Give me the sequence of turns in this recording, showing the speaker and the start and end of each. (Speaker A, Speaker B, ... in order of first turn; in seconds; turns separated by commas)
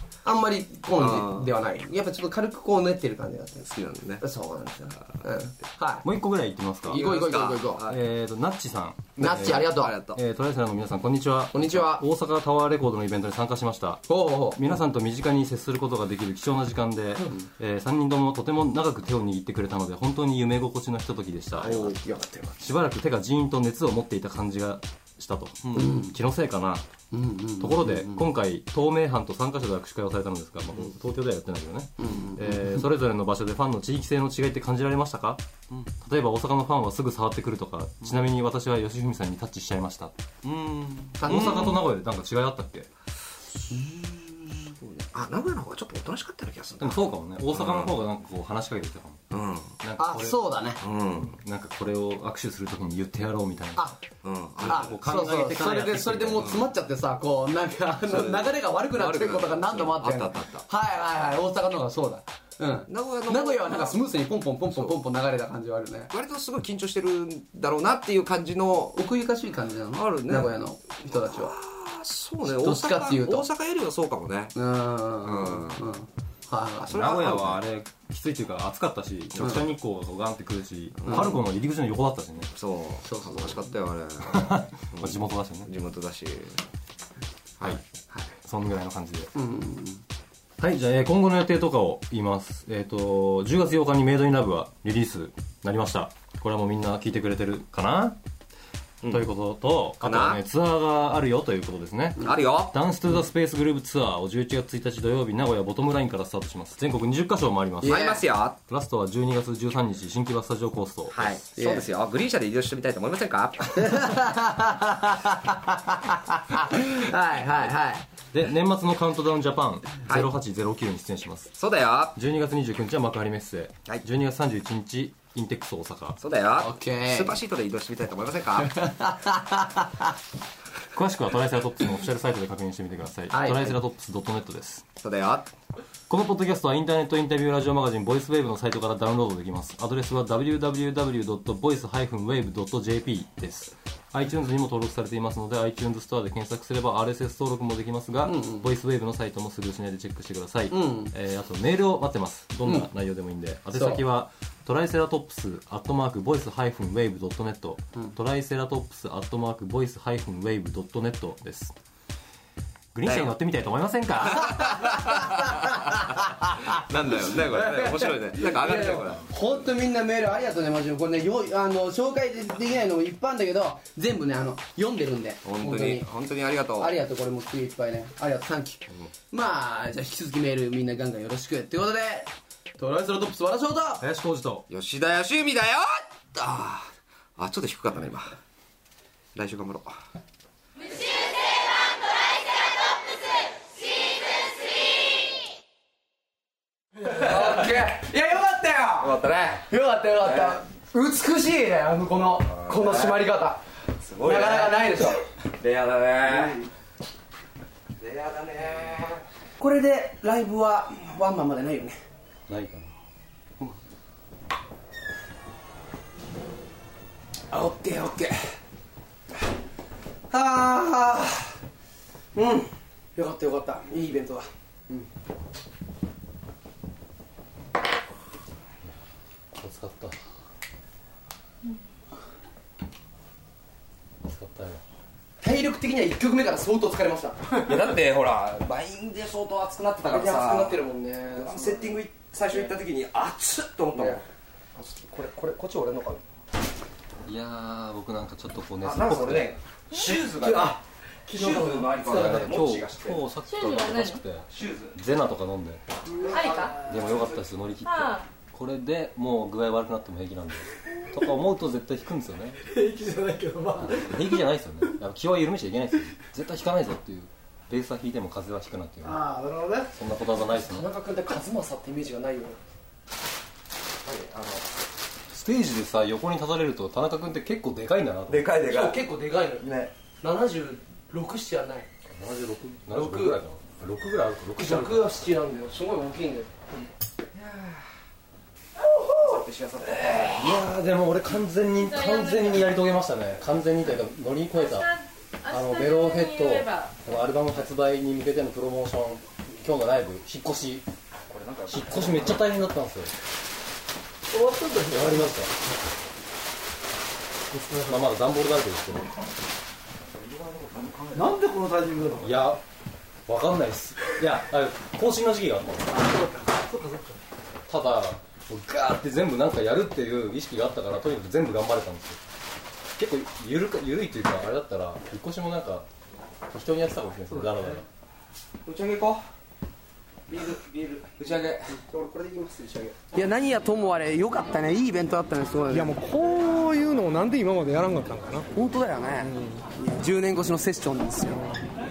Speaker A: 0.2-3.7, Speaker B: 1.0-1.5, Speaker B: 3.6-4.2, Speaker A: 4.2-6.1, Speaker C: 6.0-7.0, Speaker B: 6.9-8.0, Speaker A: 6.9-7.9, Speaker C: 7.8-21.9, Speaker A: 9.2-9.9, Speaker B: 9.3-10.2, Speaker A: 11.5-12.0, Speaker A: 14.1-14.7, Speaker A: 21.6-22.6, Speaker B: 21.6-21.9, Speaker C: 22.6-26.9, Speaker B: 25.6-25.9, Speaker A: 25.8-26.1, Speaker A: 27.1-28.3, Speaker C: 27.6-35.4, Speaker A: 32.0-32.8, Speaker C: 36.0-40.1, Speaker B: 40.4-41.8, Speaker A: 41.2-41.8, Speaker C: 41.3-42.9, Speaker B: 43.6-48.0, Speaker C: 46.8-49.2, Speaker B: 49.3-49.8, Speaker C: 49.8-50.4, Speaker A: 50.0-50.8, Speaker B: 50.8-51.4, Speaker C: 51.2-54.0, Speaker B: 54.2-55.0, Speaker C: 54.6-56.5, Speaker A: 54.6-66.1, Speaker B: 58.1-60.6, Speaker B: 62.9-64.0, Speaker B: 66.1-69.0, Speaker A: 69.0-71.5, Speaker B: 70.0-70.5, Speaker B: 71.1-74.5, Speaker A: 72.4-73.5, Speaker A: 74.5-77.2, Speaker B: 75.2-75.8, Speaker B: 76.9-77.6, Speaker C: 76.9-82.5, Speaker B: 81.0-81.4, Speaker A: 81.1-81.3, Speaker B: 82.5-86.6, Speaker A: 83.0-83.7, Speaker C: 84.2-85.7, Speaker C: 88.4-89.3, Speaker A: 89.3-90.0, Speaker C: 90.6-98.2, Speaker C: 99.1-108.0, Speaker B: 100.0-100.4, Speaker B: 102.2-102.8, Speaker A: 107.8-108.2, Speaker B: 107.8-108.6, Speaker C: 108.7-111.3, Speaker B: 111.1-114.1, Speaker A: 111.5-111.9, Speaker A: 113.8-118.1, Speaker C: 118.3-121.5, Speaker B: 121.6-122.2, Speaker C: 122.2-126.2, Speaker B: 126.2-128.9, Speaker A: 126.6-127.4, Speaker A: 128.6-130.1, Speaker C: 130.9-134.8, Speaker A: 133.3-133.8, Speaker B: 135.0-135.5, Speaker C: 136.1-161.7, Speaker A: 148.2-148.7, Speaker A: 150.7-151.1, Speaker A: 153.7-154.0, Speaker C: 162.9-164.8, Speaker B: 163.1-163.3, Speaker B: 164.3-165.7, Speaker A: 164.8-176.1, Speaker B: 166.6-169.2, Speaker B: 175.4-176.9, Speaker A: 176.8-184.1, Speaker C: 184.0-184.7, Speaker B: 184.7-188.4, Speaker B: 189.3-190.0, Speaker A: 197.0-199.1, Speaker B: 199.0-199.7, Speaker A: 199.7-203.6, Speaker B: 200.2-200.6, Speaker B: 202.5-203.3, Speaker B: 204.0-206.7, Speaker A: 204.2-205.3, Speaker A: 206.2-206.6, Speaker B: 208.0-209.2, Speaker A: 209.6-212.0, Speaker C: 212.5-212.9, Speaker A: 217.5-218.5, Speaker A: 220.3-221.6, Speaker A: 222.3-225.1, Speaker C: 229.5-230.2, Speaker C: 234.2-234.8, Speaker A: 235.4-237.6, Speaker B: 237.6-240.8, Speaker A: 240.1-242.7, Speaker B: 241.4-244.2, Speaker A: 243.9-244.2, Speaker A: 244.8-246.2, Speaker C: 247.2-249.6, Speaker B: 248.8-250.8, Speaker A: 250.1-252.6, Speaker B: 251.3-253.2, Speaker C: 252.1-255.8, Speaker D: 253.5-254.2, Speaker B: 254.5-254.9, Speaker A: 256.2-256.5, Speaker D: 256.3-256.8, Speaker C: 256.8-262.6, Speaker A: 262.8-264.0, Speaker C: 263.8-269.3, Speaker A: 269.1-269.9, Speaker C: 269.9-270.9, Speaker A: 270.5-272.6, Speaker B: 274.0-274.6, Speaker C: 275.3-278.5, Speaker B: 278.3-279.0, Speaker A: 278.7-279.7, Speaker B: 279.6-279.9, Speaker A: 280.2-281.9, Speaker C: 282.1-285.1, Speaker A: 282.9-283.4, Speaker A: 284.6-286.5, Speaker B: 287.3-287.9, Speaker A: 288.9-289.4, Speaker B: 289.2-290.6, Speaker C: 290.4-300.9, Speaker D: 292.1-292.4, Speaker D: 294.7-296.9, Speaker B: 301.3-302.4, Speaker C: 301.7-303.1, Speaker A: 304.3-305.0, Speaker C: 304.8-305.5, Speaker A: 307.7-307.9, Speaker C: 307.9-309.1, Speaker B: 310.1-311.3, Speaker A: 311.1-312.3, Speaker C: 312.2-312.6, Speaker C: 313.3-316.0, Speaker A: 316.0-317.1, Speaker C: 317.7-322.2, Speaker C: 323.0-325.9, Speaker C: 326.5-327.9, Speaker B: 328.6-329.2, Speaker B: 330.3-331.8, Speaker A: 331.7-335.9, Speaker E: 335.7-338.5, Speaker A: 338.5-341.5, Speaker E: 339.2-339.6, Speaker E: 341.3-341.6